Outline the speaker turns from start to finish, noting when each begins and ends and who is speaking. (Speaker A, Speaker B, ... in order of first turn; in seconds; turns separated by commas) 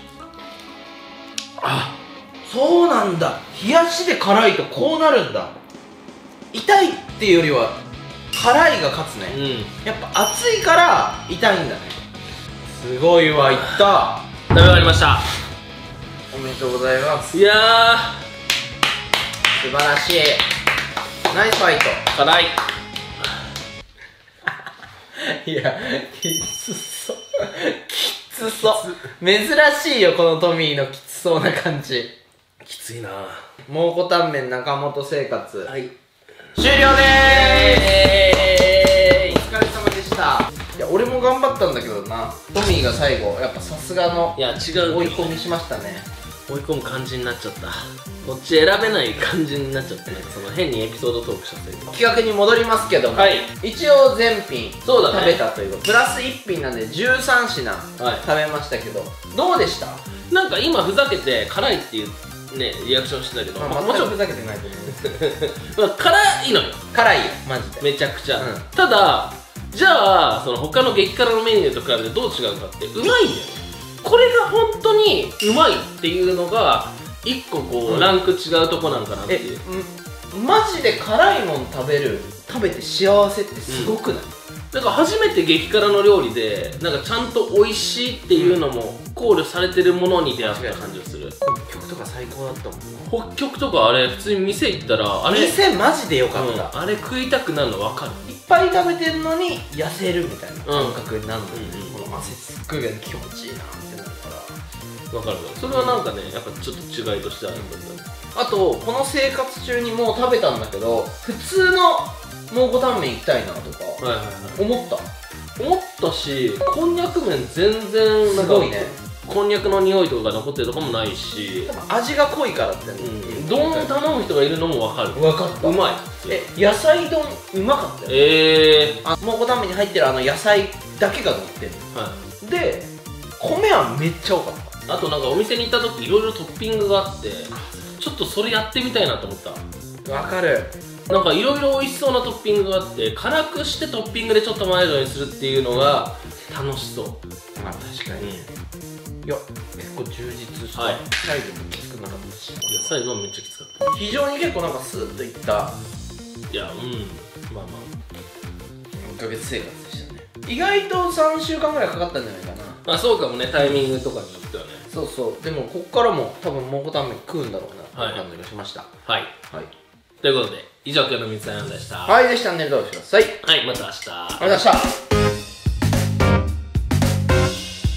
Speaker A: 1.6-5.5, Speaker A: 6.5-7.8, Speaker A: 8.3-12.0, Speaker B: 9.3-9.7, Speaker A: 12.7-14.2, Speaker B: 13.5-13.8, Speaker B: 14.5-15.3, Speaker A: 16.3-17.4, Speaker B: 17.3-18.2, Speaker A: 19.5-20.5, Speaker A: 21.3-22.1, Speaker B: 22.1-22.6, Speaker A: 25.1-32.1, Speaker B: 28.7-29.0, Speaker B: 32.6-33.5, Speaker A: 33.7-35.7, Speaker B: 35.7-35.9, Speaker A: 36.5-38.0, Speaker B: 36.9-39.3, Speaker A: 39.2-46.1, Speaker B: 44.4-45.3, Speaker B: 46.5-51.9, Speaker A: 51.9-60.0, Speaker B: 53.1-53.5, Speaker B: 54.8-55.4, Speaker B: 58.0-58.2, Speaker B: 60.3-64.1, Speaker A: 63.6-65.0, Speaker B: 65.0-66.9, Speaker A: 66.9-68.7, Speaker B: 67.8-79.6, Speaker A: 77.9-78.2, Speaker A: 79.3-84.3, Speaker B: 83.7-83.9, Speaker B: 84.7-91.3, Speaker A: 88.3-88.6, Speaker A: 90.4-93.1, Speaker B: 93.0-95.5, Speaker A: 95.3-96.7, Speaker B: 96.3-98.3, Speaker A: 98.2-104.6, Speaker B: 100.7-101.0, Speaker B: 101.5-102.0, Speaker B: 105.1-108.1, Speaker A: 105.7-106.0, Speaker A: 108.3-115.1, Speaker B: 114.0-114.6, Speaker B: 115.6-121.7, Speaker A: 118.2-118.9, Speaker A: 121.7-124.0, Speaker B: 123.0-126.5, Speaker A: 125.1-128.3, Speaker B: 128.1-129.0, Speaker A: 129.0-131.9, Speaker B: 131.9-132.2, Speaker A: 132.4-134.8, Speaker B: 134.9-139.6, Speaker A: 140.0-140.7, Speaker B: 141.1-147.2, Speaker A: 147.6-148.5, Speaker B: 148.2-148.5, Speaker A: 149.2-153.0, Speaker B: 150.7-151.0, Speaker B: 152.7-154.0, Speaker A: 153.9-155.8, Speaker B: 156.5-157.9, Speaker A: 159.0-162.8, Speaker B: 162.8-164.9, Speaker A: 164.9-168.9, Speaker B: 167.9-168.2, Speaker B: 169.1-169.3, Speaker B: 170.2-172.2, Speaker A: 172.1-173.4, Speaker B: 173.4-174.7, Speaker A: 174.4-174.9